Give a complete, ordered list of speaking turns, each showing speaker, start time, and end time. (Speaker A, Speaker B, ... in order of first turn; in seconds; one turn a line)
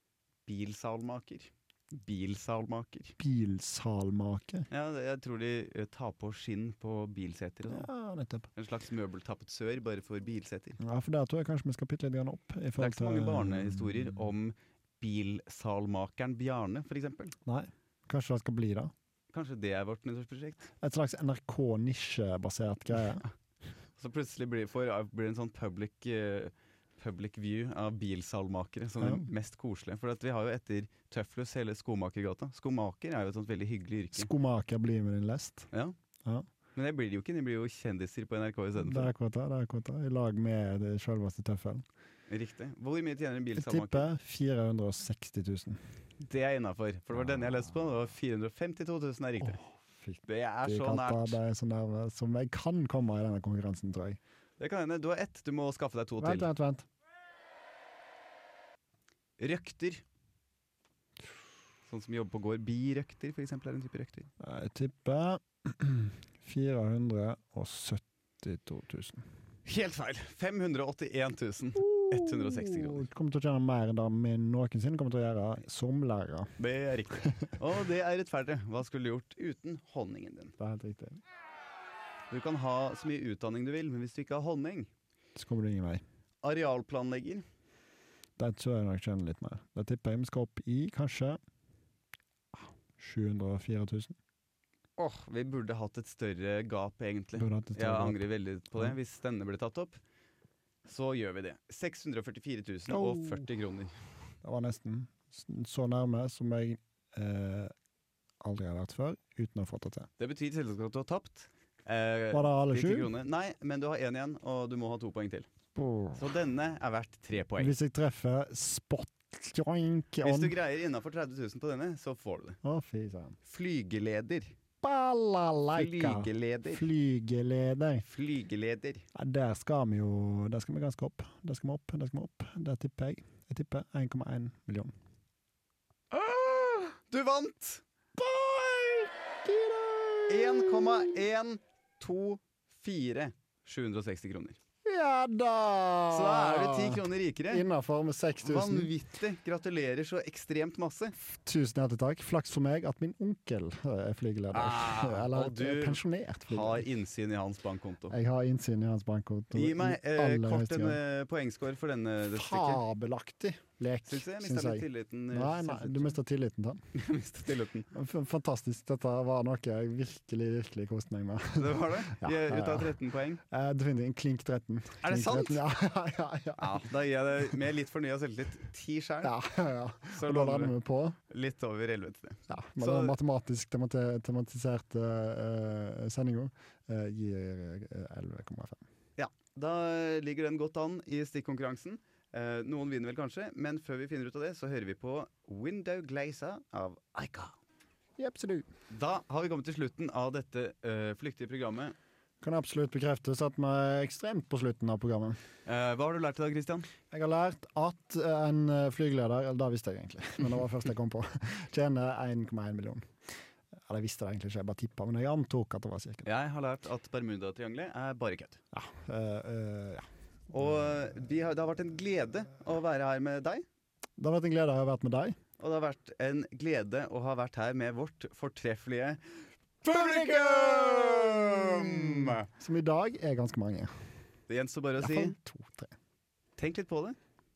Speaker A: 0.5-3.1
Speaker B: 3.2-4.7
Speaker A: 4.7-7.9
Speaker B: 7.7-8.5
Speaker A: 8.6-10.8
Speaker B: 10.8-14.2
Speaker A: 12.8-17.4
Speaker B: 17.4-18.9
Speaker A: 19.3-20.7
Speaker B: 20.8-23.2
Speaker A: 24.0-34.3
Speaker B: 29.0-29.3
Speaker B: 34.1-35.7
Speaker A: 36.8-39.1
Speaker B: 38.8-41.8
Speaker A: 42.3-44.1
Speaker B: 43.5-45.8
Speaker A: 46.2-49.6
Speaker B: 49.4-54.2
Speaker A: 50.2-51.4
Speaker A: 54.6-56.5
Speaker B: 56.2-56.9
Speaker A: 59.4-60.0
Speaker A: 61.9-64.3
Speaker B: 64.4-69.2
Speaker A: 69.7-73.0
Speaker B: 71.7-76.5
Speaker A: 76.6-80.5
Speaker B: 80.6-81.2
Speaker A: 82.3-84.9
Speaker B: 85.3-86.0
Speaker A: 86.4-87.4
Speaker B: 88.4-91.4
Speaker B: 93.0-94.2
Speaker A: 95.0-100.0
Speaker B: 97.3-98.9
Speaker A: 100.8-103.9
Speaker B: 102.9-103.5
Speaker B: 104.4-107.7
Speaker B: 108.4-110.1
Speaker A: 110.2-115.5
Speaker B: 112.3-113.1
Speaker B: 115.7-116.3
Speaker A: 116.1-117.7
Speaker B: 117.6-120.5
Speaker A: 120.2-122.6
Speaker B: 122.6-123.4
Speaker A: 123.4-124.5
Speaker B: 124.8-128.1
Speaker A: 125.7-126.8
Speaker A: 128.0-129.1
Speaker B: 129.1-134.9
Speaker B: 136.1-136.9
Speaker A: 137.1-137.8
Speaker B: 138.2-141.1
Speaker A: 140.3-144.6
Speaker B: 144.8-148.9
Speaker A: 146.1-147.6
Speaker A: 148.4-151.2
Speaker B: 151.2-156.8
Speaker A: 154.5-158.1
Speaker B: 158.1-161.0
Speaker A: 159.5-162.8
Speaker B: 162.3-166.8
Speaker A: 164.1-166.1
Speaker A: 166.9-167.9
Speaker B: 167.9-176.8
Speaker A: 171.6-173.4
Speaker A: 175.0-175.6
Speaker A: 176.6-179.3
Speaker B: 179.2-181.2
Speaker A: 180.1-180.7
Speaker A: 181.3-183.1
Speaker B: 182.5-188.8
Speaker A: 189.2-197.6
Speaker B: 198.2-198.7
Speaker A: 198.9-201.9
Speaker B: 202.4-205.4
Speaker A: 205.7-206.9
Speaker B: 207.1-213.1
Speaker B: 213.8-216.3
Speaker A: 216.2-218.6
Speaker B: 218.7-220.1
Speaker A: 220.5-223.6
Speaker B: 224.2-225.4
Speaker A: 225.6-229.2
Speaker A: 229.8-232.4
Speaker B: 229.9-233.9
Speaker A: 234.5-235.3
Speaker B: 235.0-235.9
Speaker A: 236.6-237.2